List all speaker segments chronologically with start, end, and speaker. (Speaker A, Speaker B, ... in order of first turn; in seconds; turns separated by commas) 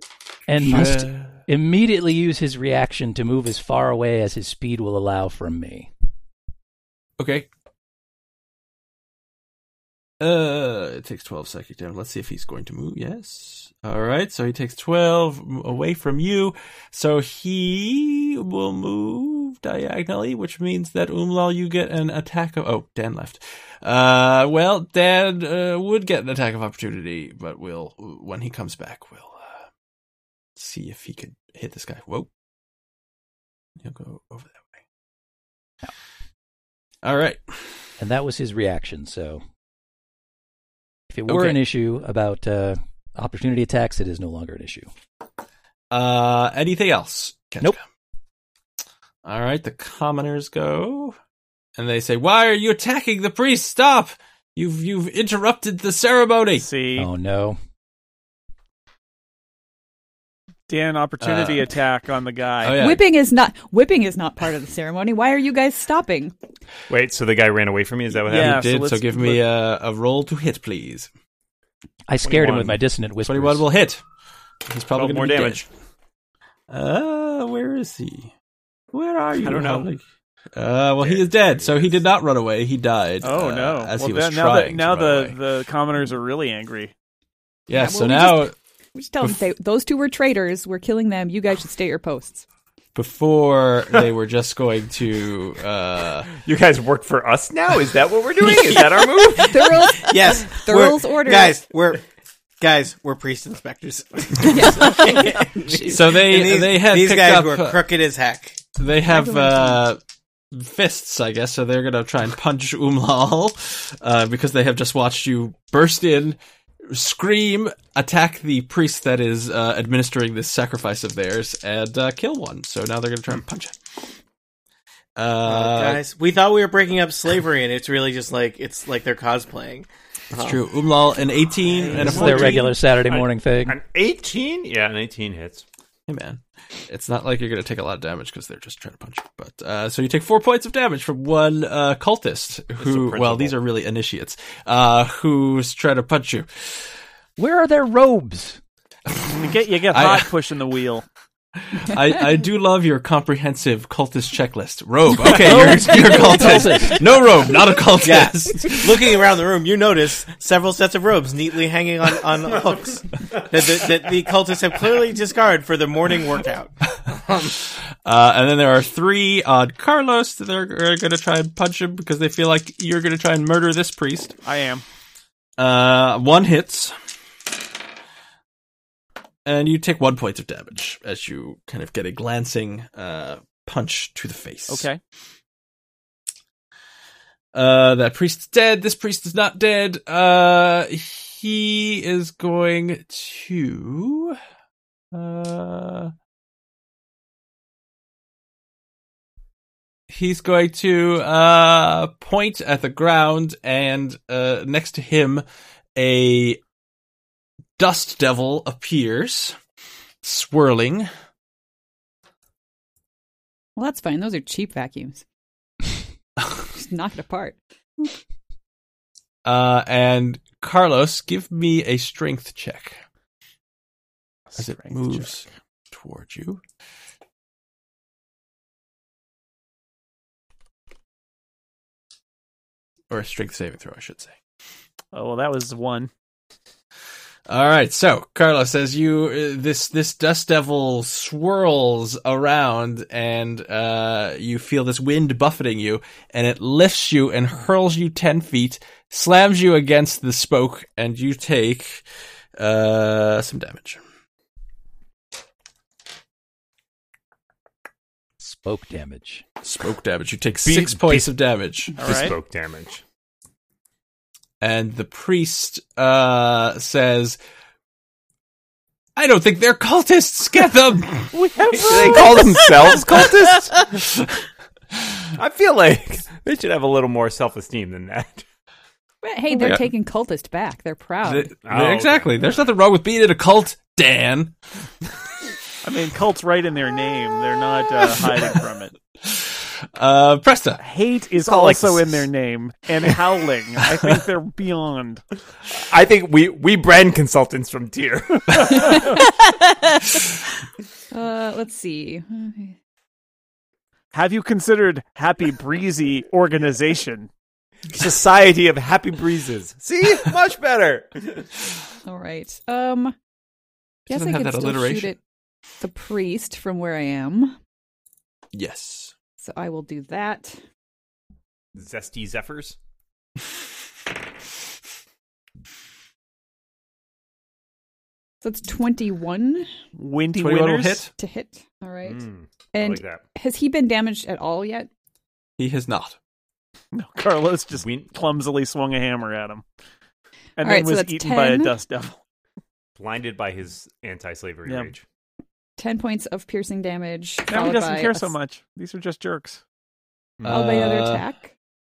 Speaker A: 0.5-5.9, Speaker B: 0.6-1.4, Speaker B: 7.2-7.5, Speaker B: 10.2-29.7, Speaker B: 30.6-32.3, Speaker B: 33.8-34.8, Speaker B: 37.0-37.6, Speaker A: 38.0-39.4, Speaker A: 41.1-44.9, Speaker B: 41.3-41.6, Speaker B: 45.9-47.8, Speaker B: 49.2-51.2, Speaker B: 51.8-56.7, Speaker C: 56.6-57.1, Speaker A: 57.0-57.6, Speaker C: 60.7-62.9, Speaker B: 61.2-61.7, Speaker B: 62.6-63.0, Speaker D: 62.8-66.3, Speaker E: 66.9-68.6, Speaker C: 68.3-69.4, Speaker B: 68.3-71.1, Speaker A: 72.1-73.7, Speaker E: 72.2-72.8, Speaker B: 73.2-74.0, Speaker B: 74.7-75.7, Speaker E: 75.0-75.6, Speaker B: 76.7-78.3, Speaker B: 78.9-80.0, Speaker C: 79.4-79.9, Speaker B: 80.5-85.4, Speaker E: 81.0-82.0, Speaker C: 83.2-86.9, Speaker B: 87.7-88.5, Speaker D: 87.7-92.4, Speaker B: 93.0-96.3, Speaker E: 96.4-99.8, Speaker D: 99.3-101.6, Speaker F: 99.9-102.0, Speaker F: 102.6-108.6, Speaker D: 104.5-106.0, Speaker B: 105.8-107.8, Speaker B: 108.8-110.0, Speaker D: 109.1-109.8, Speaker B: 110.5-124.1, Speaker B: 125.2-126.0, Speaker F: 125.4-130.6, Speaker B: 130.3-132.7, Speaker F: 131.8-132.6, Speaker C: 131.9-132.6, Speaker A: 132.0-133.8, Speaker E: 133.1-135.7, Speaker B: 136.1-146.9, Speaker F: 142.8-143.6, Speaker A: 147.4-148.6, Speaker C: 149.2-151.1, Speaker B: 149.9-150.3, Speaker B: 151.7-158.9, Speaker A: 155.3-157.0, Speaker F: 158.0-167.6, Speaker B: 167.7-174.4, Speaker C: 174.4-174.8, Speaker B: 175.6-176.9, Speaker B: 179.4-184.9, Speaker C: 184.7-185.0, Speaker B: 187.5-194.4, Speaker B: 195.1-196.1, Speaker B: 200.1-205.4, Speaker B: 206.0-206.6, Speaker B: 207.8-209.6, Speaker B: 210.2-211.1, Speaker D: 213.8-215.2, Speaker D: 216.6-217.6, Speaker B: 219.4-223.0, Speaker C: 224.5-225.5, Speaker B: 224.6-226.6, Speaker B: 233.1-234.4, Speaker C: 235.1-236.1, Speaker B: 237.5-252.1, Speaker B: 252.6-254.0, Speaker A: 258.4-259.4, Speaker B: 259.6-262.0, Speaker E: 260.6-261.3, Speaker E: 261.9-263.0, Speaker C: 262.0-262.4, Speaker B: 264.6-267.4, Speaker B: 269.2-273.3, Speaker E: 271.6-273.9, Speaker E: 275.4-278.4, Speaker D: 279.2-281.5, Speaker B: 279.5-279.9, Speaker B: 281.2-284.6, Speaker E: 281.7-282.4, Speaker C: 285.8-288.9, Speaker B: 289.2-290.8, Speaker C: 290.8-295.2, Speaker E: 291.5-291.8, Speaker E: 295.7-299.3, Speaker D: 301.1-302.8, Speaker C: 304.1-307.3, Speaker E: 307.9-311.6, Speaker D: 312.1-313.1, Speaker D: 314.1-315.2, Speaker B: 314.1-315.2, Speaker D: 315.8-317.6, Speaker B: 318.5-319.1, Speaker D: 319.4-320.6, Speaker E: 321.8-322.8, Speaker D: 328.4-329.7, Speaker C: 329.9-331.1, Speaker B: 330.4-331.1, Speaker D: 331.1-334.9, Speaker E: 332.1-333.2, Speaker B: 335.6-336.2, Speaker C: 336.9-339.6, Speaker E: 337.8-338.1, Speaker C: 340.6-342.2, Speaker D: 340.6-341.7, Speaker E: 343.0-345.0, Speaker C: 344.6-344.9, Speaker D: 345.8-348.3, Speaker C: 347.5-349.6, Speaker E: 350.4-350.9, Speaker B: 350.4-351.2, Speaker D: 350.5-351.5